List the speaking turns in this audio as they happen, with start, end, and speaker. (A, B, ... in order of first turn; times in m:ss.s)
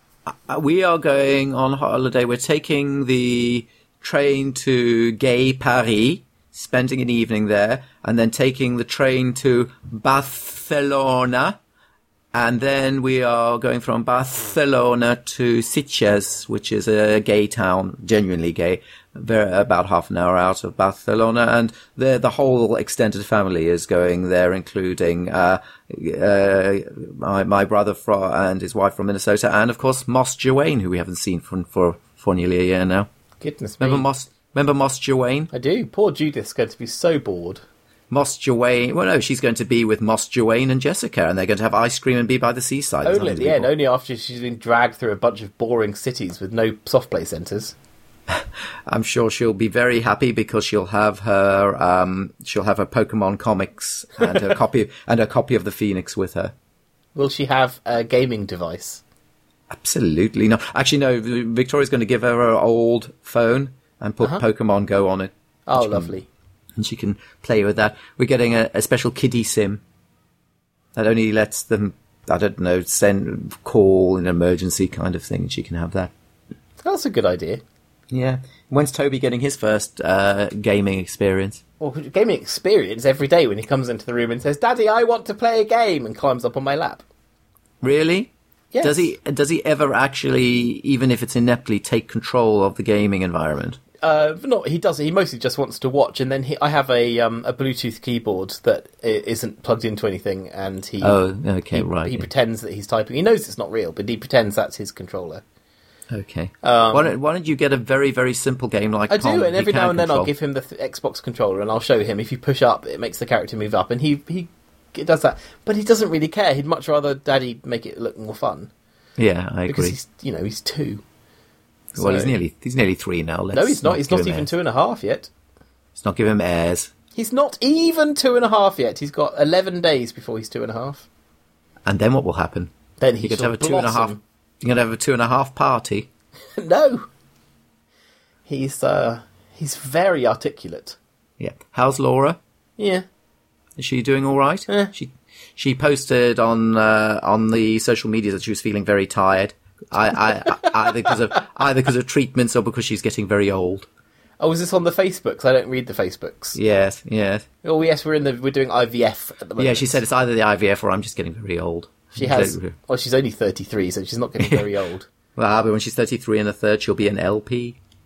0:00.3-0:11.6 A
0:12.3-0:33.1 A
0:33.4-0:34.1 B
0:33.8-0:35.5 A
0:35.5-0:37.6 B
0:38.1-0:43.7 A
0:43.0-0:47.8 B
0:48.3-0:56.5 A
0:57.2-0:59.0 B
0:59.7-1:06.1 A
1:05.7-1:06.3 B
1:06.8-1:09.8 A
1:11.0-1:16.1 A
1:16.8-1:17.6 B
1:18.1-1:21.6 A
1:21.8-1:27.0 B
1:27.8-1:33.8 A
1:28.7-1:29.1 B
1:34.0-1:41.2 B
1:41.0-1:42.3 A
1:41.7-1:45.4 B
1:46.1-1:50.3 A
1:46.6-1:47.1 B
1:49.1-1:58.7 B
1:59.2-2:00.0 A
1:59.7-2:01.0 B
2:01.9-2:02.4 B
2:02.0-2:04.5 A
2:03.5-2:05.3 B
2:06.0-2:06.9 A
2:07.2-2:11.1 B
2:11.8-2:16.1 A
2:13.0-2:14.2 B
2:16.6-2:17.1 B
2:18.5-2:21.0 B
2:21.4-2:22.4 A
2:22.8-2:23.0 B
2:23.8-2:33.9 A
2:34.4-2:36.6 B
2:36.6-2:37.5 A
2:37.6-2:40.0 B
2:39.6-2:42.7 A
2:42.2-2:45.1 B
2:44.4-2:44.7 A
2:45.4-2:47.8 A